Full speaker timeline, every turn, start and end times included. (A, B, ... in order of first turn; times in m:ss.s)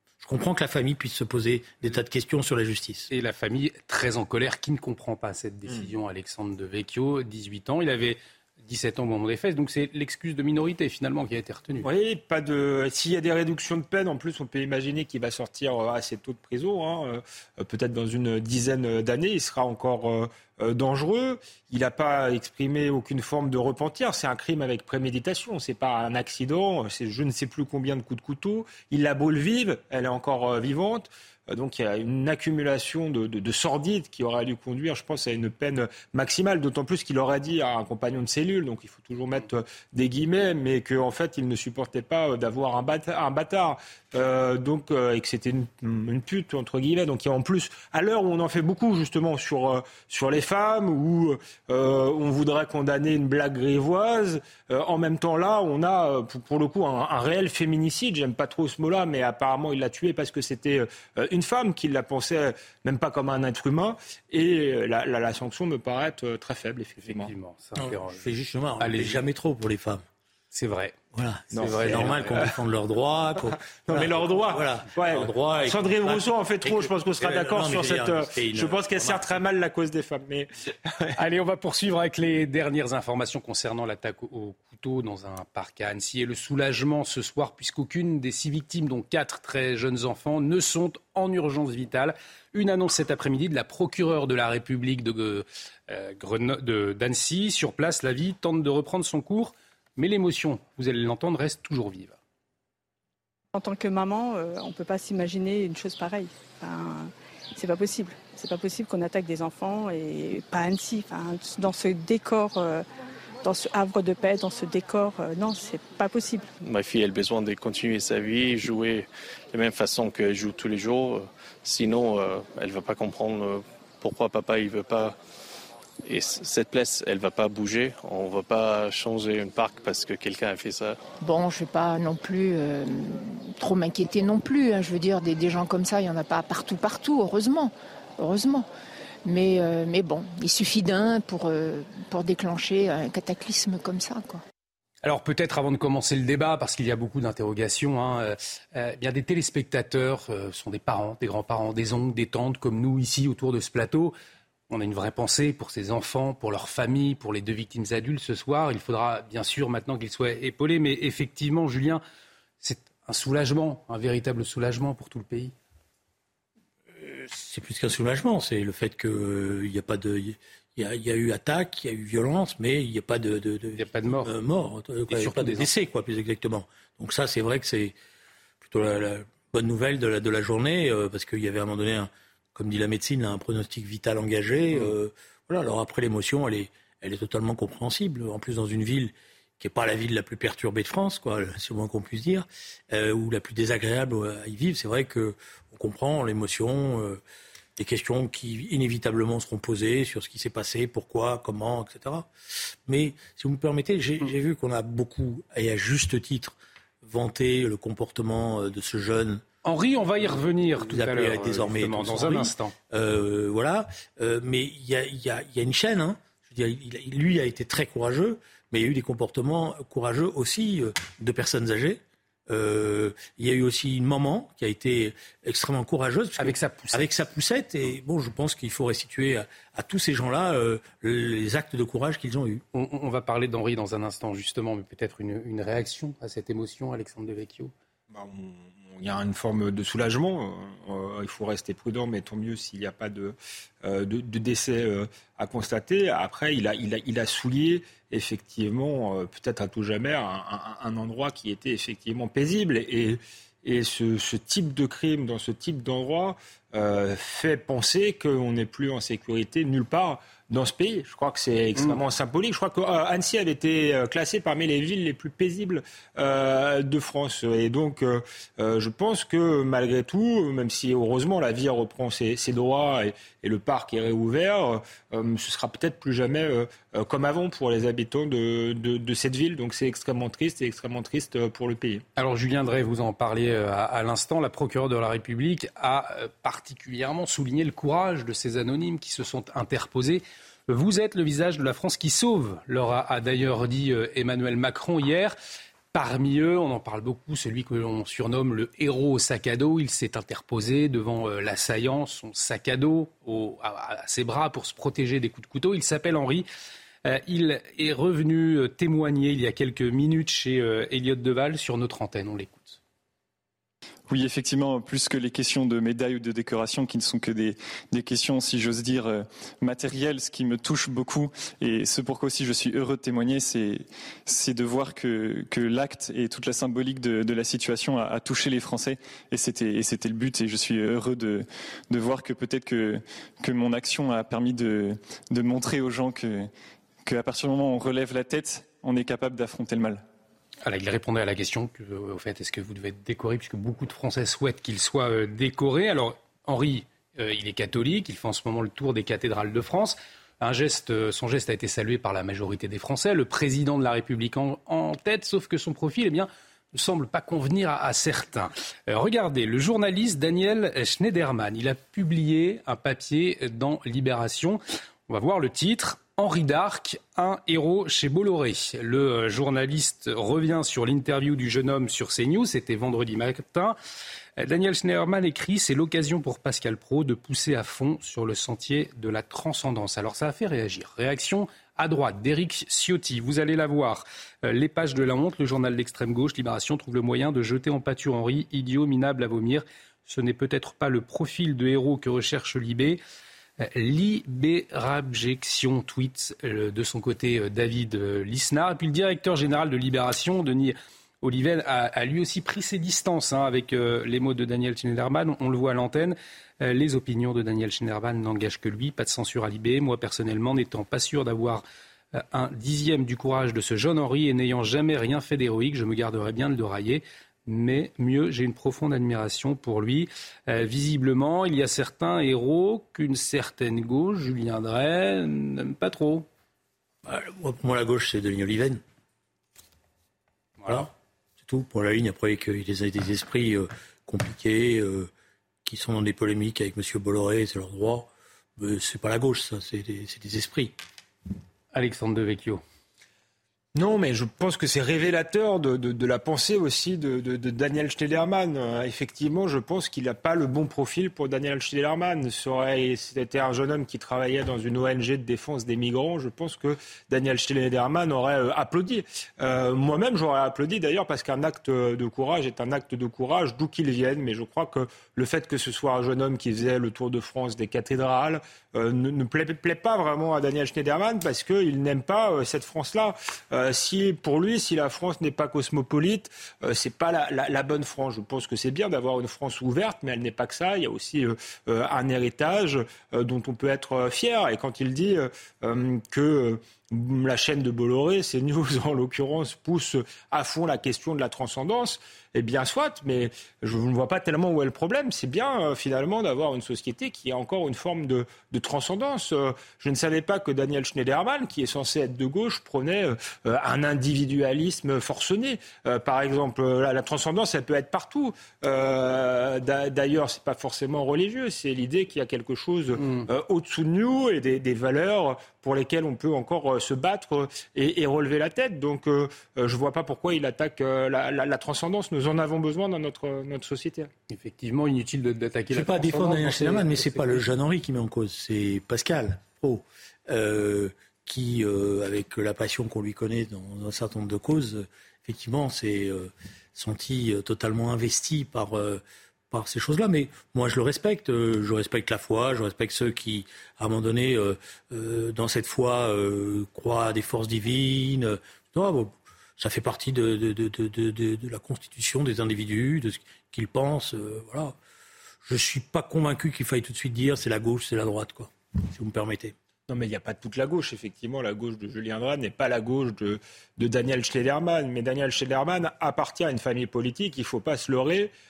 0:00.2-0:03.1 A
0:03.1-0:11.9 B
0:11.8-1:07.3 C
1:07.0-1:08.2 B
1:07.8-1:10.0 A
1:08.8-1:09.2 B
1:10.5-1:11.0 B
1:11.1-1:19.4 A
1:11.6-1:12.5 B
1:11.6-1:12.1 C
1:13.9-1:21.1 C
1:21.2-1:42.2 B
1:43.5-1:52.8 D
1:53.4-1:56.5 D
1:56.6-2:05.2 E
2:06.0-2:11.0 E
2:11.2-2:18.7 F
2:19.2-2:24.4 F
2:25.0-2:34.1 B
2:34.7-2:42.0 B
2:42.6-2:45.5 B
2:47.0-2:58.0 A
2:53.8-2:54.3 B
2:55.1-2:55.7 B
2:58.6-3:17.2 A
3:17.8-3:22.3 A
3:22.8-3:29.4 A
3:29.6-3:32.7 B
3:30.2-3:52.6 A
3:46.4-3:47.1 B
3:52.7-3:57.7 B
3:58.1-4:42.0 C
4:42.2-4:55.3 B
4:55.9-5:06.4 B
5:07.0-5:12.8 B
5:14.1-5:36.5 G
5:37.0-5:40.0 G
5:40.6-6:13.8 B
6:14.4-6:33.0 B
6:33.6-7:06.2 B
7:07.0-7:08.8 A
7:10.6-7:10.9 B
7:10.6-7:15.1 A
7:15.6-7:20.8 A
7:21.7-7:22.6 B
7:23.7-8:44.1 C
8:44.3-8:47.4 B
8:45.7-9:14.8 A
9:15.4-9:19.5 A
9:19.9-9:28.3 C